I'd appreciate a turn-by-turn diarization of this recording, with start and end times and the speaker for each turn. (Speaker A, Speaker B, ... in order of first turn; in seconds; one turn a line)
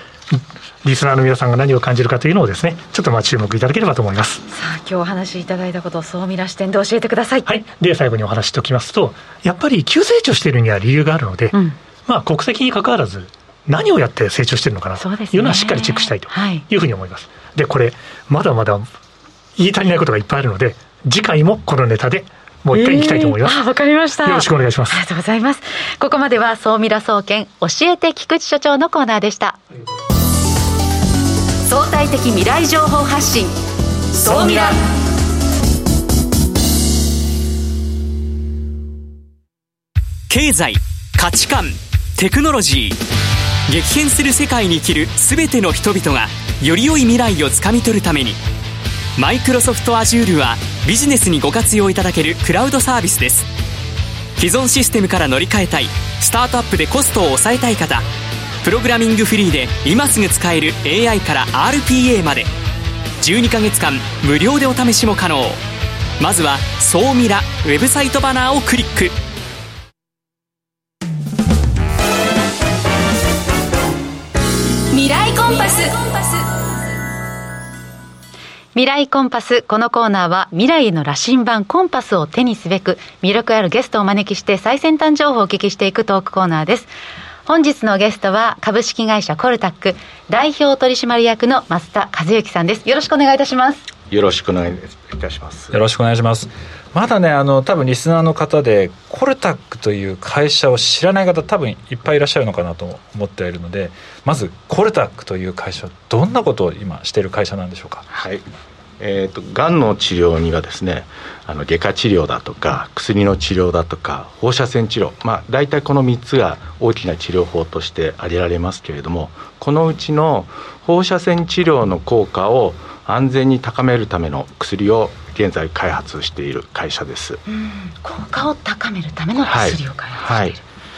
Speaker A: 0.3-4.4
Speaker B: 4.5-7.5
Speaker A: 7.4-18.9
Speaker B: 15.0-16.6
Speaker A: 19.6-23.6
Speaker B: 22.7-29.6
Speaker A: 24.2-25.0
Speaker B: 31.6-33.5
Speaker B: 34.1-34.8
Speaker C: 40.3-43.0
Speaker C: 43.7-48.4
Speaker C: 49.2-53.5
Speaker C: 54.4-58.0
Speaker C: 58.6-62.5
Speaker C: 63.2-65.6
Speaker C: 66.2-69.1
Speaker B: 74.9-76.4
Speaker B: 78.8-86.9
Speaker B: 87.5-93.8
Speaker D: 94.1-95.7
Speaker E: 95.7-108.1
Speaker D: 108.1-108.4
Speaker D: 109.0-127.4
Speaker B: 127.5-130.6
Speaker D: 129.4-130.6